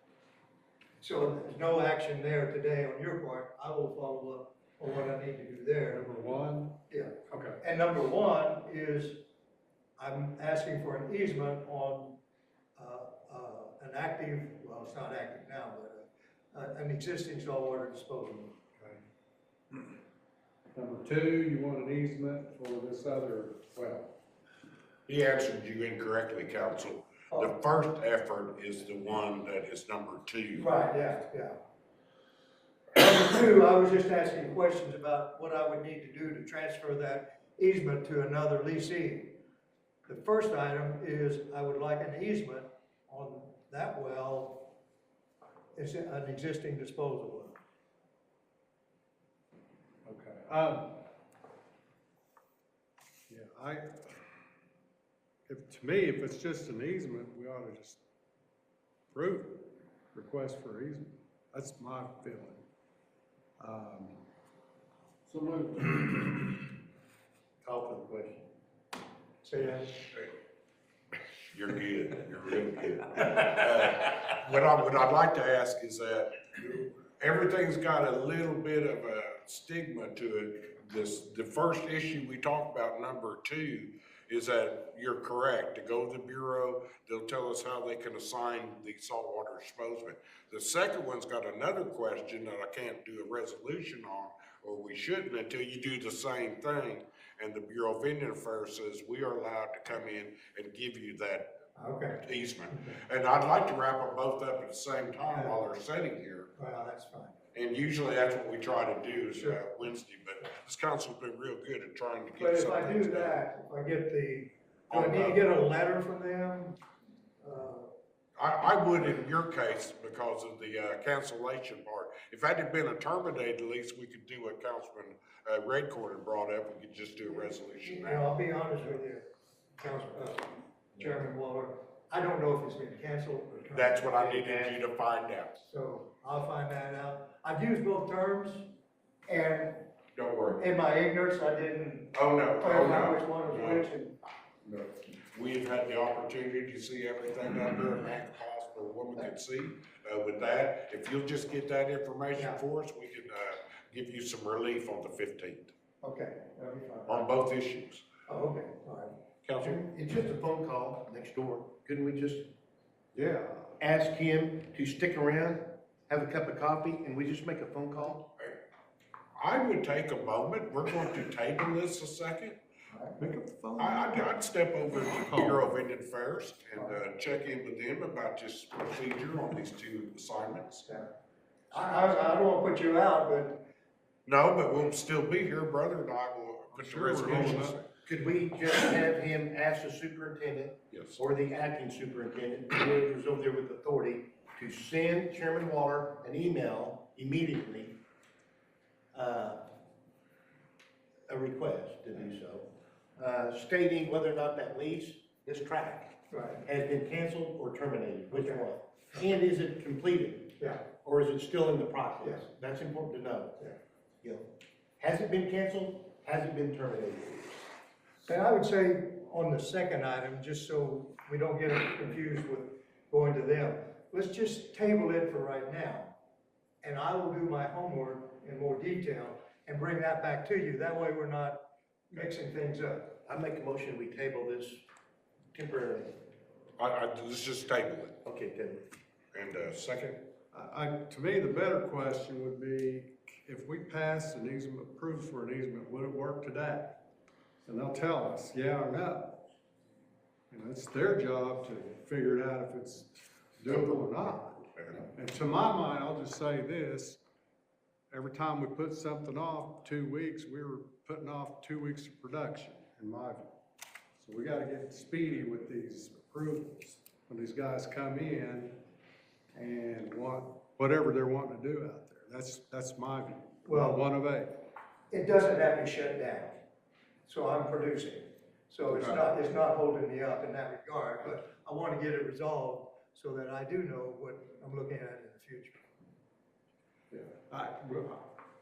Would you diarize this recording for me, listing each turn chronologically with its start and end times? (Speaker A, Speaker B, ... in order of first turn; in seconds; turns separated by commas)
Speaker A: 1.0-6.0, Speaker B: 5.9-7.6, Speaker A: 6.9-9.2, Speaker A: 10.0-12.2, Speaker A: 12.8-18.6, Speaker B: 20.7-24.1, Speaker C: 25.1-30.7, Speaker A: 30.6-31.6, Speaker A: 32.9-39.4, Speaker A: 40.0-44.8, Speaker A: 45.8-47.6, Speaker B: 50.0-51.0, Speaker B: 53.3-54.1, Speaker B: 55.5-58.0, Speaker B: 59.1-62.6, Speaker B: 63.6-64.2, Speaker D: 65.3-66.5, Speaker D: 67.6-68.5, Speaker A: 69.4-70.0, Speaker C: 71.5-101.6, Speaker A: 101.7-102.9, Speaker C: 102.2-106.5, Speaker A: 105.3-105.6, Speaker A: 106.5-107.3, Speaker C: 107.5-113.3, Speaker A: 112.3-116.8, Speaker C: 114.9-115.4, Speaker A: 117.4-117.9, Speaker C: 118.3-128.2, Speaker A: 127.8-129.2, Speaker A: 129.8-134.1, Speaker C: 133.7-135.5, Speaker D: 134.2-134.7, Speaker A: 135.6-138.7, Speaker A: 139.3-139.9, Speaker C: 140.2-140.6, Speaker A: 140.6-144.2, Speaker C: 142.1-143.9, Speaker C: 144.6-155.7, Speaker A: 152.3-152.6, Speaker A: 156.0-157.2, Speaker C: 157.1-158.0, Speaker A: 158.3-159.1, Speaker C: 159.4-159.8, Speaker D: 159.6-162.5, Speaker B: 163.2-163.7, Speaker D: 163.8-168.3, Speaker C: 169.4-172.6, Speaker A: 172.9-173.2, Speaker B: 173.2-174.0, Speaker C: 173.8-180.8, Speaker A: 180.8-181.1, Speaker A: 181.7-183.7, Speaker C: 184.2-187.9, Speaker B: 186.9-187.8, Speaker D: 188.1-198.0, Speaker C: 190.9-191.2, Speaker D: 199.1-199.7, Speaker D: 201.3-213.6, Speaker A: 206.3-206.6, Speaker A: 208.3-208.6, Speaker A: 210.6-210.8, Speaker D: 215.0-217.7, Speaker A: 218.2-226.1, Speaker A: 226.8-233.2, Speaker D: 233.2-234.8, Speaker D: 235.5-236.1, Speaker C: 236.8-238.2, Speaker D: 238.2-238.8, Speaker C: 239.3-240.3, Speaker B: 240.5-247.0, Speaker B: 247.6-249.4, Speaker B: 250.5-257.2, Speaker C: 254.8-255.0, Speaker B: 258.1-263.5, Speaker B: 264.2-268.8, Speaker B: 269.5-274.6, Speaker A: 273.6-274.0, Speaker A: 275.1-276.6, Speaker A: 277.2-285.8, Speaker B: 287.1-288.3